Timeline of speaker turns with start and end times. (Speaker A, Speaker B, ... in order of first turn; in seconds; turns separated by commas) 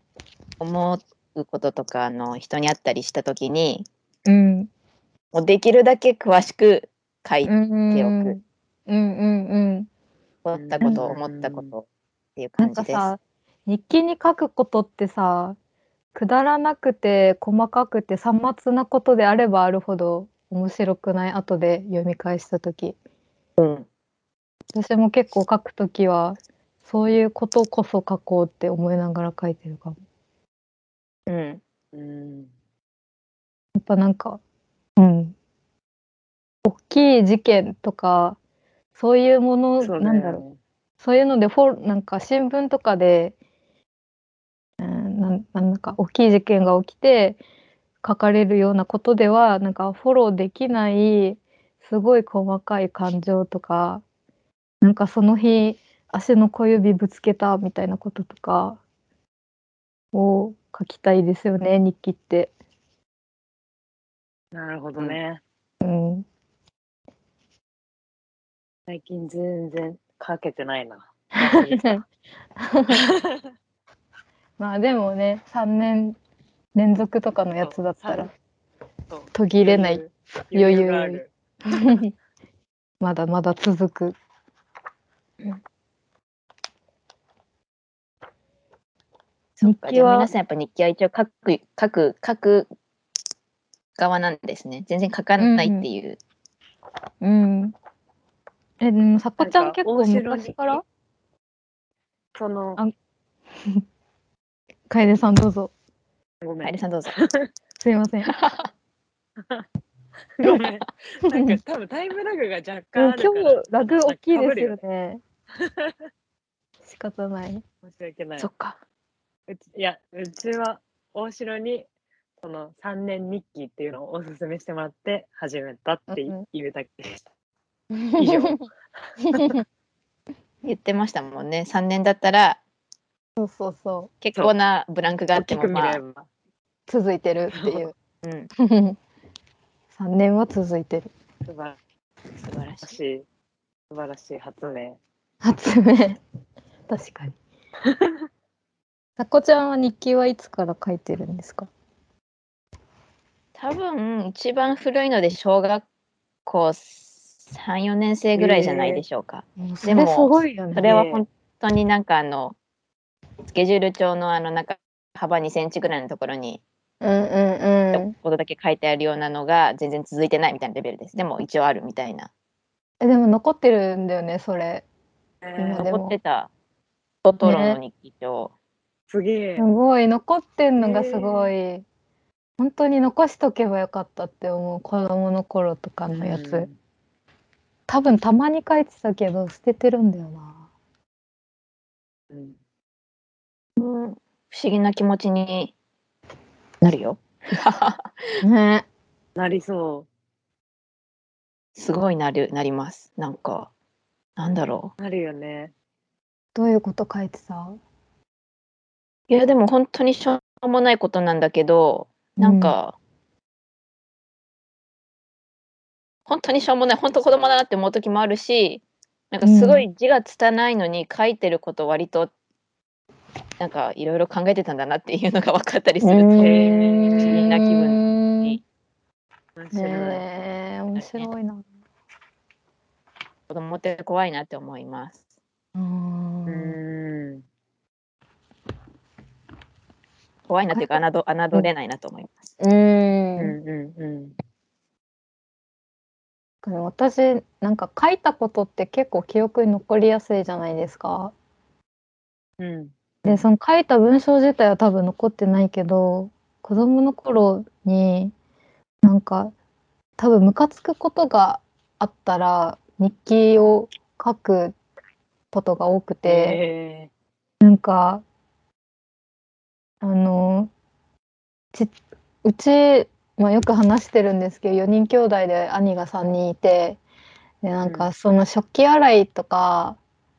Speaker A: 0.6-3.9, Speaker B: 4.3-4.7, Speaker A: 5.3-8.4, Speaker B: 7.5-9.9, Speaker A: 10.4-11.9, Speaker C: 10.6-11.7, Speaker A: 12.4-13.1, Speaker B: 12.6-15.6, Speaker B: 16.1-23.0, Speaker A: 23.6-23.9, Speaker B: 24.7-30.0, Speaker A: 31.3-31.6, Speaker C: 31.9-32.5, Speaker B: 33.8-34.4, Speaker B: 35.0-35.4, Speaker B: 36.6-38.4, Speaker B: 39.0-40.4, Speaker C: 39.8-40.6, Speaker B: 41.0-43.4, Speaker B: 44.8-47.4, Speaker B: 48.0-54.0, Speaker B: 54.8-58.8, Speaker B: 60.1-62.5, Speaker C: 64.5-65.4, Speaker B: 65.8-66.2, Speaker C: 68.9-71.9, Speaker B: 71.4-72.0, Speaker B: 72.6-73.0, Speaker C: 72.9-73.4, Speaker B: 74.6-76.2, Speaker B: 76.8-78.3, Speaker C: 77.6-78.3, Speaker C: 79.1-81.3, Speaker B: 79.3-82.1, Speaker B: 83.0-84.2, Speaker A: 89.6-92.7, Speaker B: 89.6-90.3, Speaker A: 94.0-96.2, Speaker B: 95.4-95.9, Speaker B: 97.2-97.7, Speaker B: 98.8-100.8, Speaker C: 99.4-100.8, Speaker C: 102.3-102.8, Speaker B: 104.9-105.7, Speaker C: 106.4-107.5, Speaker A: 106.6-107.1, Speaker B: 107.8-108.3, Speaker A: 108.3-108.7, Speaker C: 109.4-109.7, Speaker C: 110.4-114.8, Speaker B: 111.3-111.6, Speaker B: 113.0-115.2, Speaker C: 115.6-116.1, Speaker B: 116.9-117.6, Speaker C: 117.8-118.5, Speaker A: 118.4-118.8, Speaker C: 119.5-121.9, Speaker C: 122.4-127.3, Speaker B: 126.1-126.5, Speaker B: 127.9-128.6, Speaker C: 128.2-128.6, Speaker B: 129.3-129.6, Speaker A: 130.6-132.6, Speaker B: 133.4-134.1, Speaker A: 134.2-136.0, Speaker C: 135.3-136.3, Speaker B: 136.9-137.9, Speaker C: 137.5-137.8, Speaker A: 138.2-138.5, Speaker B: 138.6-139.0, Speaker B: 139.9-141.1, Speaker C: 141.5-141.8, Speaker A: 142.4-142.9, Speaker C: 142.8-143.2, Speaker C: 143.9-145.0, Speaker B: 145.4-146.2, Speaker B: 146.9-147.3, Speaker C: 147.9-148.2, Speaker B: 149.2-151.7, Speaker A: 153.6-155.8, Speaker A: 156.5-162.6, Speaker C: 158.4-159.0, Speaker B: 159.6-160.9, Speaker C: 160.8-161.2, Speaker A: 163.5-166.6, Speaker B: 167.0-168.2, Speaker A: 167.9-172.3, Speaker B: 173.0-174.8, Speaker C: 175.4-175.9, Speaker B: 175.6-176.2, Speaker A: 175.8-176.5, Speaker A: 177.2-178.5, Speaker B: 177.4-177.8, Speaker C: 179.1-179.7, Speaker B: 179.6-181.8, Speaker C: 180.8-181.5, Speaker B: 182.6-186.7, Speaker C: 186.1-186.8, Speaker B: 187.9-190.6, Speaker C: 192.3-192.6, Speaker A: 193.8-195.7, Speaker A: 196.8-198.4, Speaker B: 198.4-198.9, Speaker C: 199.4-200.1, Speaker A: 201.8-203.7, Speaker A: 204.4-204.9, Speaker C: 205.0-205.7, Speaker B: 206.6-207.8, Speaker A: 209.3-212.9, Speaker B: 212.4-212.8, Speaker A: 216.3-222.3, Speaker B: 219.4-219.8, Speaker A: 223.6-228.6, Speaker B: 226.0-228.6, Speaker C: 226.4-227.5, Speaker C: 229.6-230.2, Speaker B: 229.7-231.6, Speaker A: 230.9-231.3, Speaker A: 233.5-235.2, Speaker B: 235.8-236.8, Speaker C: 236.5-237.4, Speaker A: 240.5-242.5, Speaker B: 240.7-241.0, Speaker B: 242.6-243.6, Speaker C: 243.4-244.4, Speaker B: 246.6-251.3, Speaker C: 252.6-253.4, Speaker B: 253.2-258.3, Speaker B: 259.0-259.5, Speaker B: 260.2-264.8, Speaker B: 265.5-266.6, Speaker C: 266.2-267.1, Speaker B: 267.6-268.2, Speaker B: 270.0-270.7, Speaker B: 272.4-277.0, Speaker B: 277.6-280.0, Speaker C: 277.8-278.1